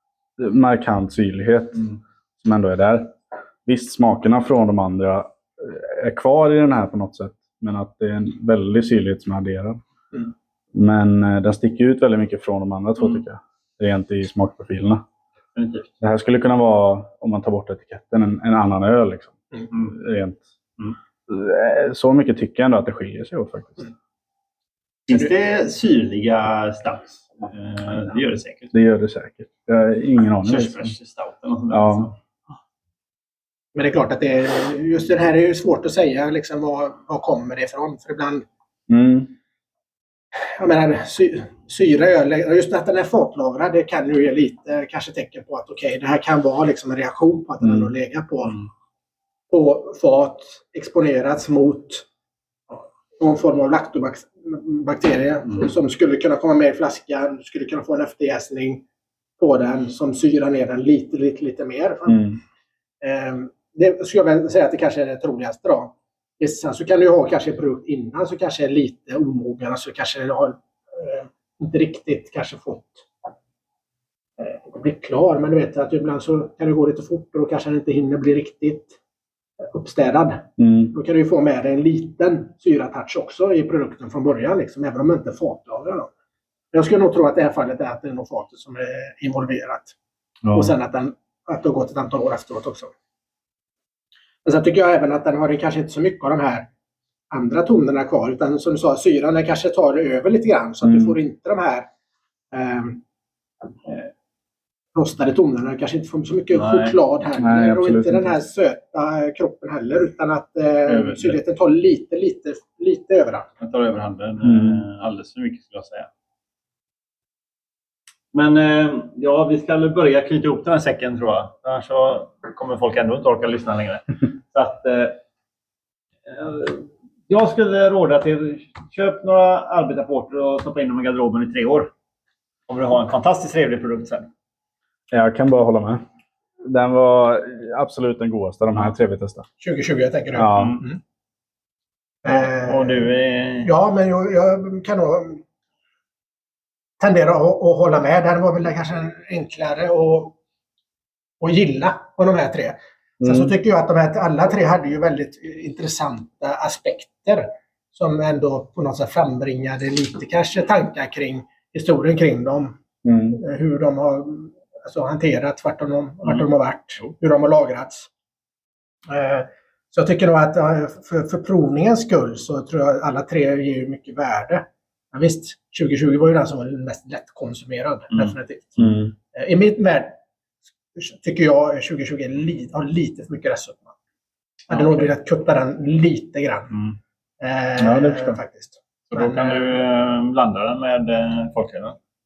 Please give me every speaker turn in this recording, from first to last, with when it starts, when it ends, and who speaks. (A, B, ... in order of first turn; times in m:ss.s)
0:00.4-0:09.8 A
0:10.7-0:15.0 A
0:15.6-0:15.9 B
0:16.0-0:20.4 A
0:21.3-0:23.9 A
0:25.1-0:28.7 B
0:28.7-0:30.9 A
0:30.4-0:32.1 B
0:31.7-0:32.1 A
0:33.7-0:38.4 C
0:38.9-0:39.3 A
0:40.4-0:48.6 C
0:47.6-0:47.9 A
0:49.5-0:52.1 C
0:52.7-0:58.8 C
0:59.4-1:02.2 C
1:02.1-1:02.4 A
1:03.0-1:13.1 C
1:14.4-1:19.0 C
1:19.6-1:26.1 C
1:20.6-1:20.9 A
1:26.7-1:29.9 C
1:30.4-1:30.7 A
1:30.5-1:32.9 C
1:34.4-1:36.7 C
1:37.3-1:41.9 C
1:40.8-1:41.2 A
1:42.5-1:43.0 C
1:44.9-1:53.5 C
1:46.5-1:47.0 B
1:47.4-1:48.4 A
1:50.9-1:51.4 B
1:53.6-1:56.1 B
1:54.4-1:54.8 A
1:58.3-2:05.2 B
2:06.2-2:11.9 B
2:12.7-2:14.3 B
2:15.1-2:16.0 A
2:16.6-2:19.5 A
2:19.6-2:21.0 C
2:20.3-2:20.8 A
2:20.5-2:20.8 B
2:22.2-2:23.0 C
2:22.2-2:23.7 B
2:23.6-2:25.4 C
2:27.0-2:30.3 C
2:31.4-2:42.8 C
2:33.2-2:33.5 A
2:43.0-2:43.4 A
2:43.3-2:48.1 C
2:49.1-3:00.2 C
2:58.8-2:59.1 A
3:00.9-3:03.9 C
3:04.7-3:06.7 C
3:06.7-3:07.0 B
3:07.4-3:09.7 C
3:07.8-3:08.4 A
3:09.1-3:12.0 B